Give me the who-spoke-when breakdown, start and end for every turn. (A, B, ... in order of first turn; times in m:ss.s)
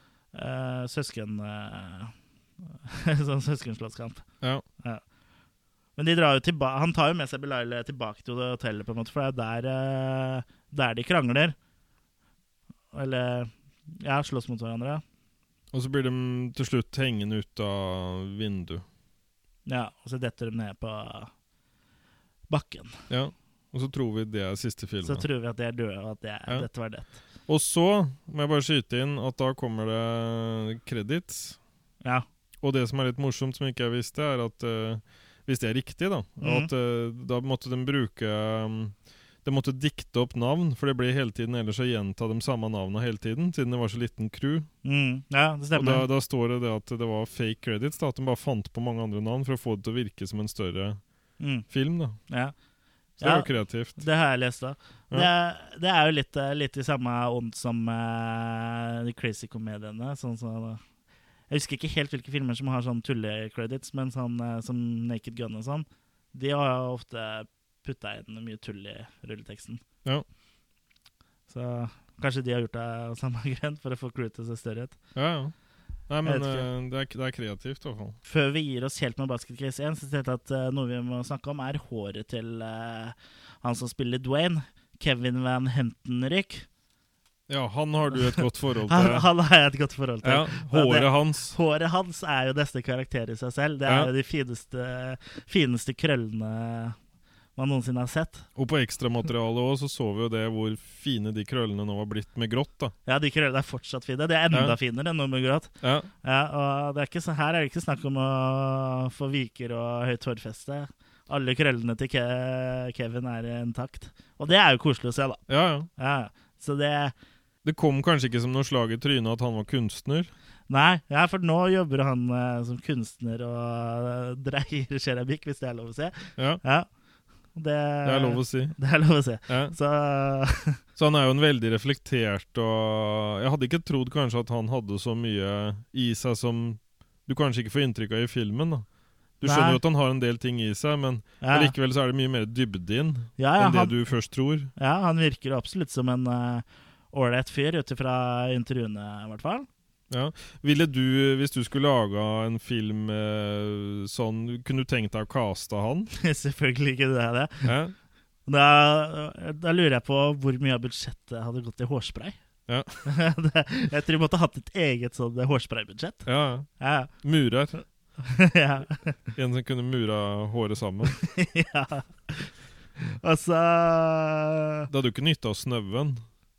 0:00.3-0:02.1 A
0:02.8-0:04.2 A
0:06.0-0:11.5 A
0:12.9-0:15.0 A
0:15.7-0:18.8 B
0:19.6-0:21.3 A
0:22.5-0:22.9 A
0:23.1-0:25.2 B
0:25.0-0:27.1 A
0:27.5-0:31.6 B
0:32.6-0:44.7 B
0:36.4-0:36.7 A
0:44.8-0:46.1 A
0:45.7-0:51.0 B
0:51.4-0:51.6 A
0:51.7-0:52.2 B
0:52.3-0:52.5 A
0:53.2-1:00.8 A
0:53.2-0:54.0 B
1:01.5-1:09.8 A
1:11.5-1:15.0 A
1:15.1-1:15.5 B
1:16.1-1:18.2 B
1:16.2-1:16.7 A
1:18.2-1:26.6 A
1:27.5-1:29.3 B
1:28.1-1:37.0 A
1:30.2-1:31.5 B
1:37.6-1:38.5 A
1:38.6-1:42.9 B
1:43.0-1:45.7 A
1:44.5-1:44.8 B
1:45.8-1:46.1 B
1:46.2-1:55.4 A
1:55.5-1:55.9 B
1:56.0-1:57.1 A
1:57.6-2:00.3 B
2:00.7-2:06.9 A
2:07.5-2:10.8 A
2:08.0-2:08.8 B
2:09.5-2:09.7 B
2:11.0-2:18.8 B
2:19.4-2:24.7 B
2:19.4-2:19.8 A
2:21.4-2:21.7 A
2:23.4-2:24.0 A
2:24.8-2:29.7 A
2:30.1-2:36.1 B
2:36.1-2:37.7 A
2:37.6-2:37.9 B
2:38.5-2:42.4 A
2:42.7-2:43.0 B
2:43.0-2:46.2 A
2:46.2-2:46.7 B
2:46.8-2:47.1 A
2:47.2-2:47.8 B
2:48.2-2:49.2 A
2:49.4-2:51.2 B
2:51.2-2:54.9 A
2:54.9-2:56.2 B